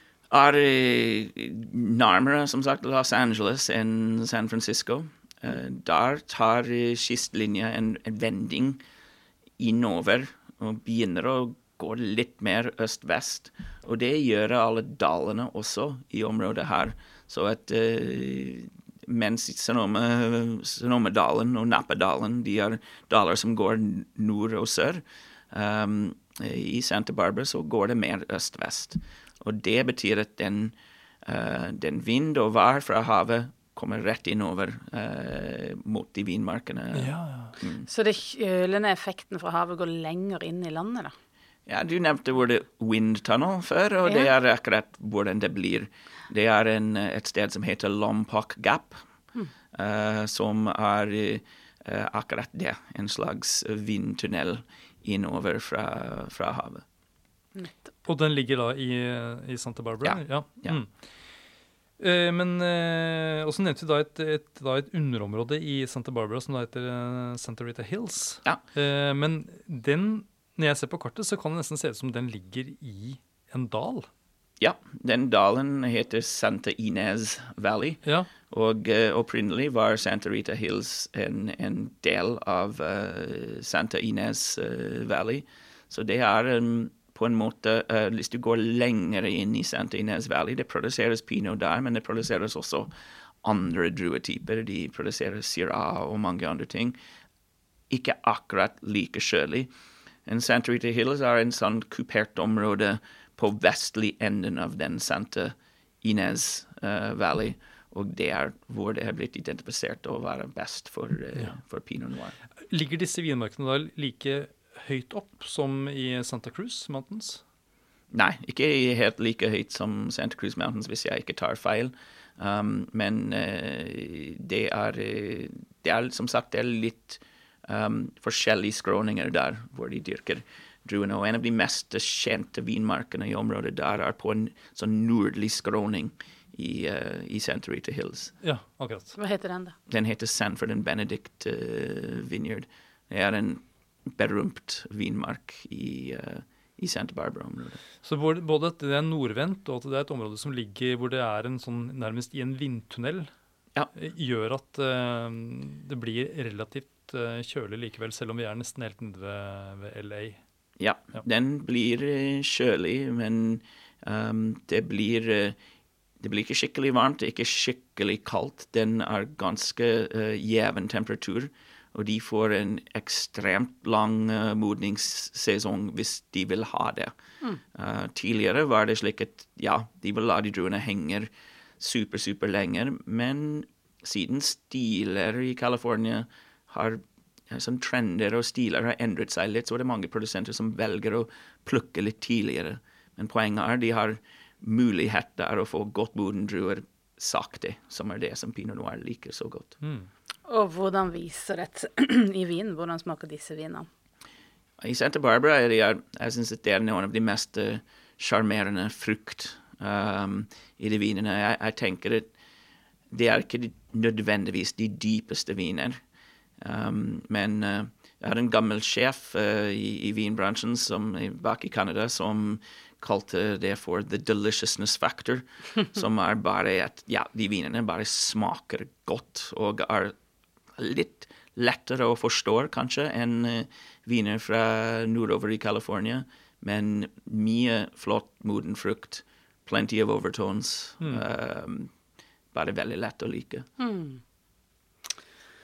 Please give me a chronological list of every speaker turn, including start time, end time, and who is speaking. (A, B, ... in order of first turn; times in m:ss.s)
0:00.3-0:08.8 A
0:09.6-0:37.8 A
0:36.9-0:37.6 B
0:37.9-0:41.1 C
0:41.7-0:49.0 A
0:49.7-0:56.8 A
0:58.0-1:00.9 B
1:00.0-1:00.8 A
1:02.0-1:14.1 B
1:14.6-1:32.9 A
1:33.4-1:37.0 A
1:37.9-1:39.7 A
1:40.2-1:52.4 A
1:52.7-1:57.4 B
1:58.1-2:18.3 A
2:18.4-2:19.2 B
2:19.1-2:19.8 C
2:19.9-2:27.8 A
2:28.0-2:33.3 B
2:33.9-2:40.4 B
2:40.8-2:45.6 A
2:46.2-2:57.1 A
2:57.7-3:19.8 A
3:19.8-3:20.1 B
3:20.4-3:23.9 C
3:24.8-3:32.3 A
3:33.1-3:36.0 A
3:36.6-3:50.1 A
3:50.8-4:01.9 A
4:02.5-4:03.7 A
4:03.8-4:04.2 C